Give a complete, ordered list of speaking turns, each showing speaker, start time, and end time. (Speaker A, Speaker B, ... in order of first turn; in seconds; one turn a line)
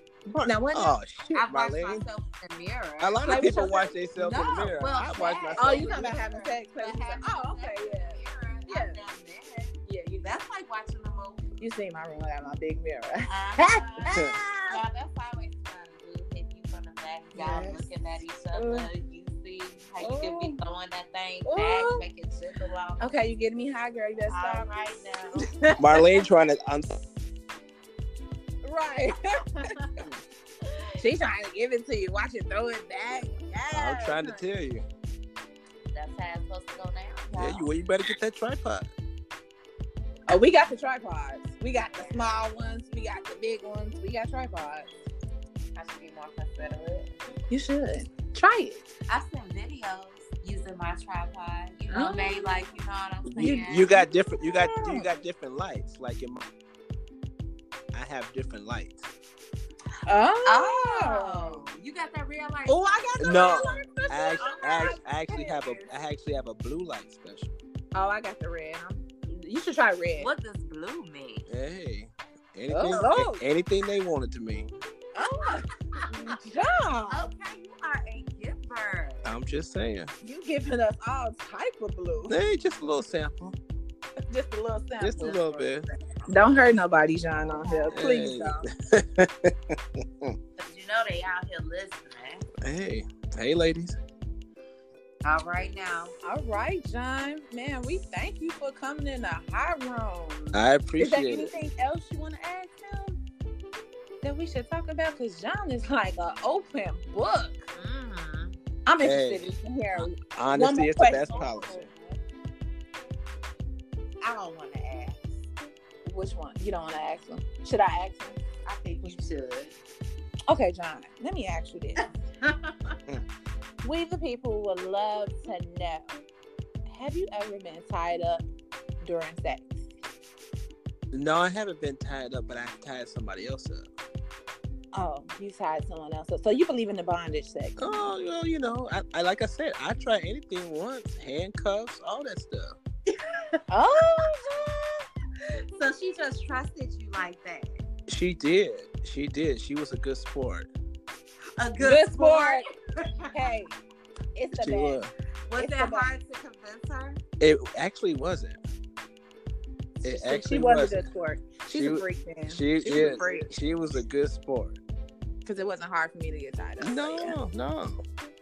Speaker A: 0.3-2.0
Speaker B: 0.4-1.0
Speaker C: 1.3-11.5
Speaker A: 3.0-6.2
Speaker B: 3.2-4.0
Speaker B: 5.6-9.0
Speaker B: 9.9-10.3
Speaker B: 11.6-14.8
Speaker C: 13.3-23.1
Speaker B: 17.4-17.8
Speaker B: 18.5-18.9
Speaker B: 20.0-20.6
Speaker B: 21.4-22.0
Speaker B: 23.0-24.7
Speaker C: 24.3-25.5
Speaker B: 25.4-25.8
Speaker A: 25.8-27.0
Speaker B: 28.6-29.7
Speaker B: 31.0-34.4
Speaker A: 33.7-34.9
Speaker C: 35.9-37.6
Speaker A: 37.3-38.9
Speaker B: 40.3-44.9
Speaker C: 41.7-42.5
Speaker C: 45.8-47.1
Speaker B: 47.5-48.8
Speaker C: 49.1-54.0
Speaker B: 51.9-52.6
Speaker A: 53.2-56.4
Speaker B: 53.4-55.1
Speaker A: 57.9-59.1
Speaker B: 60.1-61.6
Speaker C: 60.4-63.8
Speaker B: 62.7-65.8
Speaker A: 63.2-67.5
Speaker C: 64.4-65.0
Speaker B: 67.9-70.3
Speaker C: 70.2-71.5
Speaker A: 71.5-74.7
Speaker B: 72.7-73.4
Speaker B: 75.1-77.2
Speaker C: 77.1-79.3
Speaker A: 79.2-80.1
Speaker B: 80.2-82.3
Speaker A: 82.3-83.6
Speaker B: 84.3-85.4
Speaker A: 85.0-85.8
Speaker C: 85.2-86.8
Speaker B: 86.3-88.6
Speaker C: 87.3-88.0
Speaker A: 87.9-90.3
Speaker C: 90.6-92.5
Speaker A: 92.6-93.9
Speaker C: 95.2-96.1
Speaker B: 96.2-103.2
Speaker A: 100.5-101.5
Speaker B: 104.2-107.7
Speaker C: 107.7-108.6
Speaker B: 108.8-111.4
Speaker A: 109.0-111.9
Speaker C: 111.2-112.2
Speaker C: 114.2-115.5
Speaker B: 116.0-118.4
Speaker C: 118.6-119.7
Speaker B: 120.5-122.0
Speaker C: 122.0-123.0
Speaker B: 123.8-126.1
Speaker B: 126.8-128.4
Speaker B: 129.0-129.9
Speaker A: 131.1-133.9
Speaker B: 134.9-138.0
Speaker A: 137.8-142.8
Speaker B: 143.7-145.0
Speaker C: 145.4-147.8
Speaker A: 148.1-150.7
Speaker C: 151.6-153.3
Speaker B: 151.8-152.7
Speaker B: 153.3-153.7
Speaker B: 154.3-155.0
Speaker A: 154.5-155.1
Speaker C: 155.5-157.2
Speaker B: 155.6-156.1
Speaker A: 157.4-158.6
Speaker A: 160.0-161.1
Speaker B: 160.0-163.5
Speaker A: 161.7-164.8
Speaker C: 163.0-163.3
Speaker B: 165.4-167.3
Speaker A: 166.8-168.0